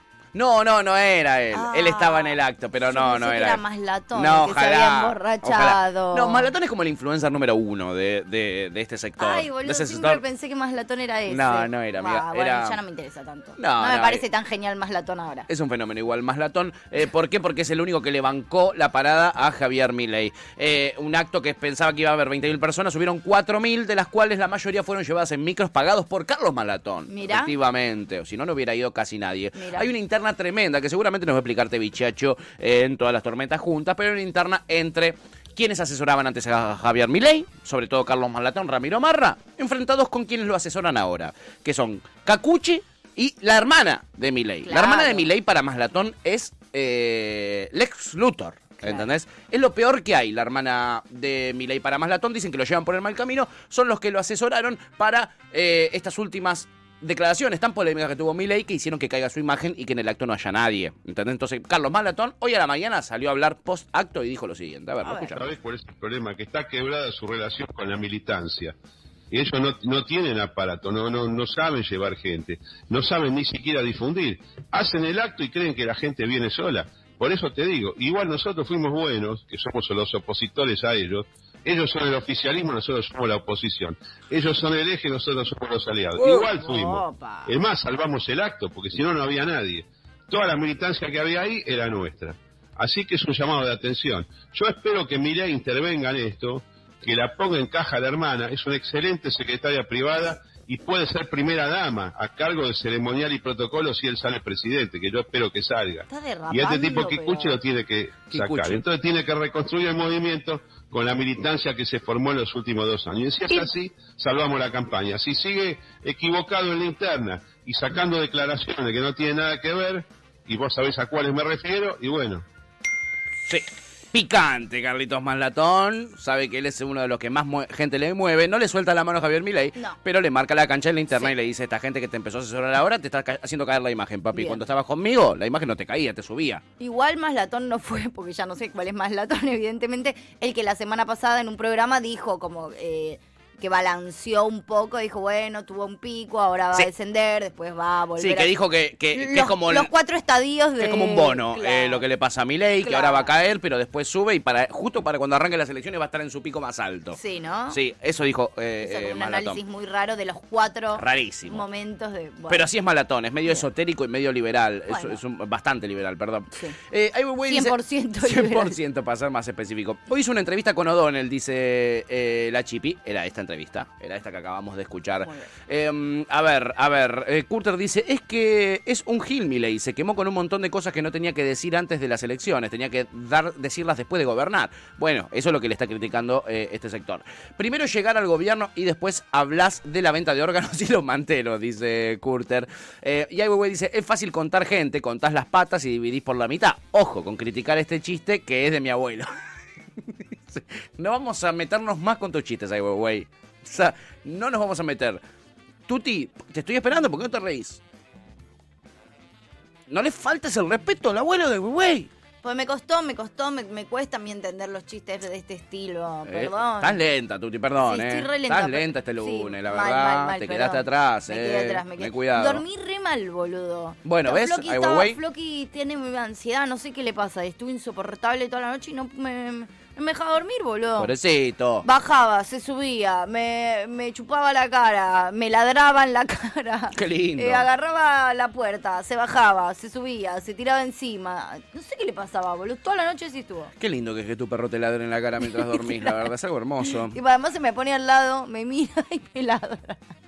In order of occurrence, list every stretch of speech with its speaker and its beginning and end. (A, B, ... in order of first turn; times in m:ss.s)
0:00.3-0:03.6 A
0:01.5-0:06.5 B
0:04.1-0:10.2 A
0:09.2-0:15.5 B
0:11.3-0:12.8 A
0:13.6-0:14.2 A
0:15.5-1:05.5 A
0:27.1-0:27.5 B
0:29.6-0:29.9 B
0:44.6-0:45.3 B
0:48.8-0:49.1 B
1:05.0-1:05.4 B
1:05.4-1:08.7 C
1:09.3-2:02.4 C
1:26.2-1:27.6 B
1:46.1-1:47.6 B
1:48.3-1:48.8 A
2:03.5-2:16.6 A
2:14.3-2:14.6 B
2:16.8-2:28.5 B
2:28.2-2:29.9 A
2:29.1-2:32.0 B
2:30.8-2:37.2 A
2:32.8-2:33.3 B
2:37.1-2:37.8 B
2:37.7-2:39.6 A
2:38.8-2:42.7 B
2:41.0-2:41.6 A
2:42.5-3:19.3 A
2:44.9-2:45.2 B
2:47.5-2:48.8 B
2:55.2-2:55.5 B
3:20.1-3:25.2 A
3:25.9-3:27.8 A
3:29.9-3:32.1 A
3:32.4-3:37.0 B
3:36.2-3:42.6 A
3:37.8-3:51.1 B
3:44.0-3:45.2 A
3:51.0-3:51.9 A
3:51.8-4:03.7 B
3:56.9-3:57.7 A
4:03.8-4:07.2 A
4:05.5-4:06.2 B
4:06.8-4:10.0 B